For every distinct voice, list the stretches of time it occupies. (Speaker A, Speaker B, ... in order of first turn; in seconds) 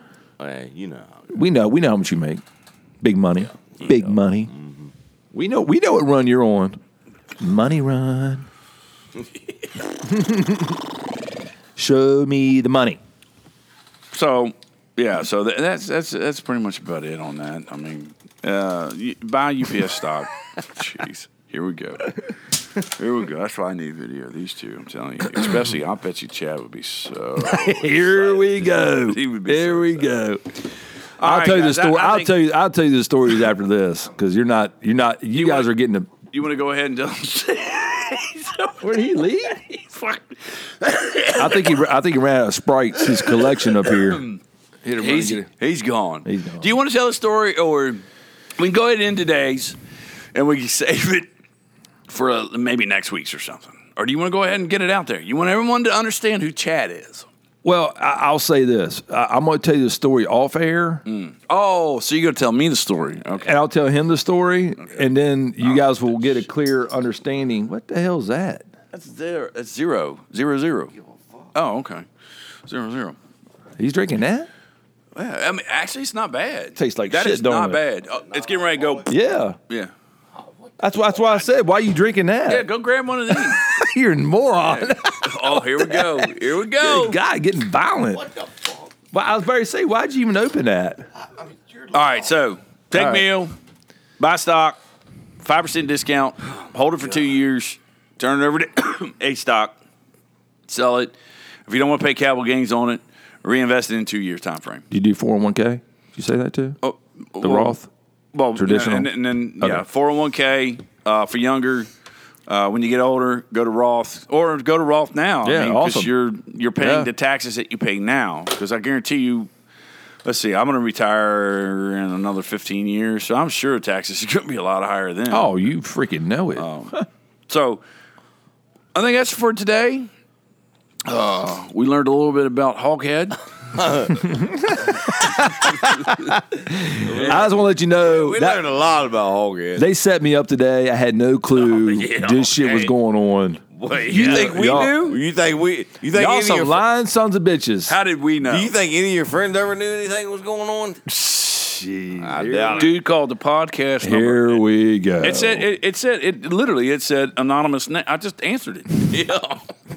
Speaker A: 0.4-1.3, 3.8-4.9, 71.0-71.5, 133.7-134.7, 137.0-139.8, 141.6-142.9, 143.7-146.8, 148.4-151.0, 152.2-152.9
Speaker B: 1.3-2.4, 3.0-4.5, 5.3-6.8, 7.4-8.5, 10.0-10.8, 11.8-13.0, 27.4-30.7, 31.2-36.1, 38.8-39.6, 41.3-44.2, 44.8-45.5, 46.2-46.7, 57.6-61.0, 63.4-68.7, 73.8-74.5, 76.7-77.8, 79.0-79.6, 80.8-82.7, 83.3-88.3, 89.1-91.0, 92.9-93.2, 104.9-106.8, 107.4-107.9, 108.5-109.1, 115.4-116.1, 116.8-117.1, 125.3-126.7, 134.3-135.3, 136.7-138.6, 139.7-145.2, 146.5-148.0, 152.2-152.9, 154.0-155.7
Speaker C: 14.1-22.2, 22.7-30.2, 31.2-32.4, 35.3-35.7, 36.3-41.8, 43.0-44.4, 44.9-48.0, 48.6-49.8, 50.3-51.3, 52.1-57.3, 61.1-63.5, 65.6-66.4, 68.9-70.9, 71.5-72.1, 72.7-73.2, 75.1-79.1, 82.5-83.8, 84.6-87.2, 91.9-93.5, 94.2-94.8, 95.4-99.8, 100.7-101.1, 101.7-104.8, 106.8-107.8, 108.3-111.9, 112.5-119.5, 120.2-125.5, 126.5-127.8, 128.9-130.1, 131.0-133.4, 144.1-145.2, 146.1-146.7, 147.9-148.8, 151.1-154.6, 155.2-159.6